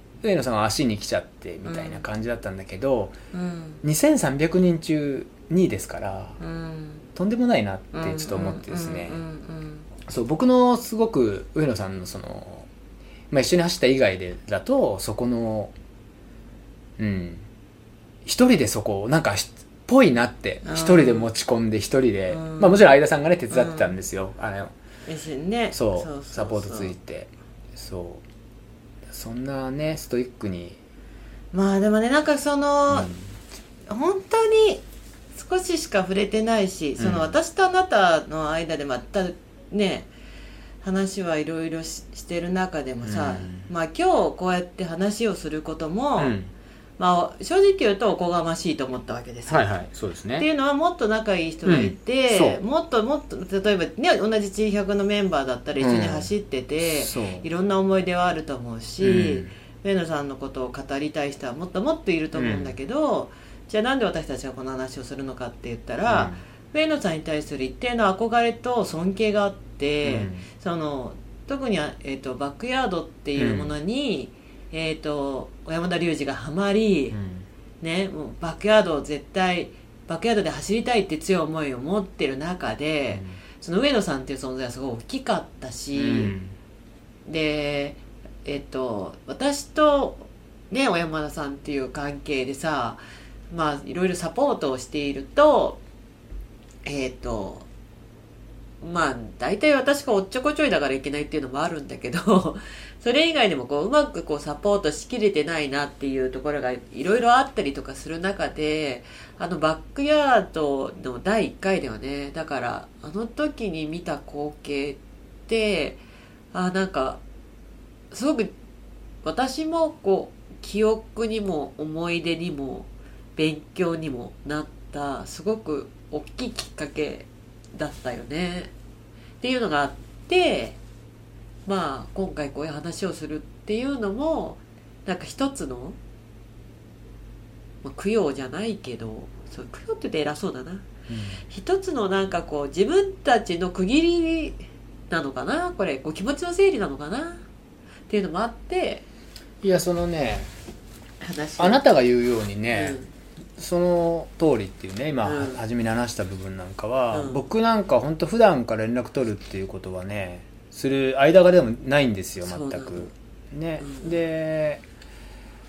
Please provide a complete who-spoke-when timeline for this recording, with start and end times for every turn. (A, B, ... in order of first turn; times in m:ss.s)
0:00.2-0:03.2 A
0:01.6-0:02.0 B
0:03.3-0:03.8 B
0:03.8-0:06.4 A
0:06.4-0:07.0 B
0:07.2-0:09.2 A
0:07.9-0:09.8 B
0:10.1-0:12.7 A
0:13.3-0:15.7 A
0:17.0-0:17.5 A
0:18.2-0:24.7 A
0:20.6-0:21.3 B
0:22.3-0:22.9 B
0:23.5-0:23.9 B
0:25.1-0:27.0 B
0:25.7-0:28.2 A
0:29.1-0:30.8 A
0:31.5-0:33.1 B
0:32.9-0:33.2 A
0:33.9-0:34.8 B
0:35.4-0:40.1 B
0:37.0-0:37.4 A
0:40.8-0:46.4 B
0:43.0-0:43.7 A
0:46.2-0:46.5 A
0:47.0-0:49.7 B
0:49.5-0:50.5 A
0:50.4-1:17.2 B
0:51.6-0:52.6 A
0:55.8-0:56.3 A
0:56.8-0:57.5 A
0:59.0-0:59.5 A
1:02.4-1:02.7 A
1:06.1-1:06.4 A
1:10.0-1:10.5 A
1:13.4-1:13.8 A
1:17.1-1:17.5 A
1:17.8-1:26.4 B
1:23.1-1:23.4 A
1:26.0-1:26.6 A
1:27.3-1:35.8 B
1:36.8-1:37.7 B
1:38.8-1:56.0 B
1:56.5-1:57.2 B
1:58.1-1:58.5 B
1:59.2-2:08.7 B
2:09.4-2:10.8 B
2:11.7-2:16.0 B
2:17.8-2:20.9 B
2:21.1-2:21.4 A
2:21.4-2:27.4 B
2:28.1-2:29.0 B
2:29.6-2:30.5 A
2:31.2-2:31.8 B
2:31.6-2:33.0 A
2:32.7-2:33.1 B
2:33.6-2:44.8 A
2:35.2-2:35.6 B
2:37.1-2:37.4 B
2:42.4-2:43.1 B
2:43.8-2:44.1 B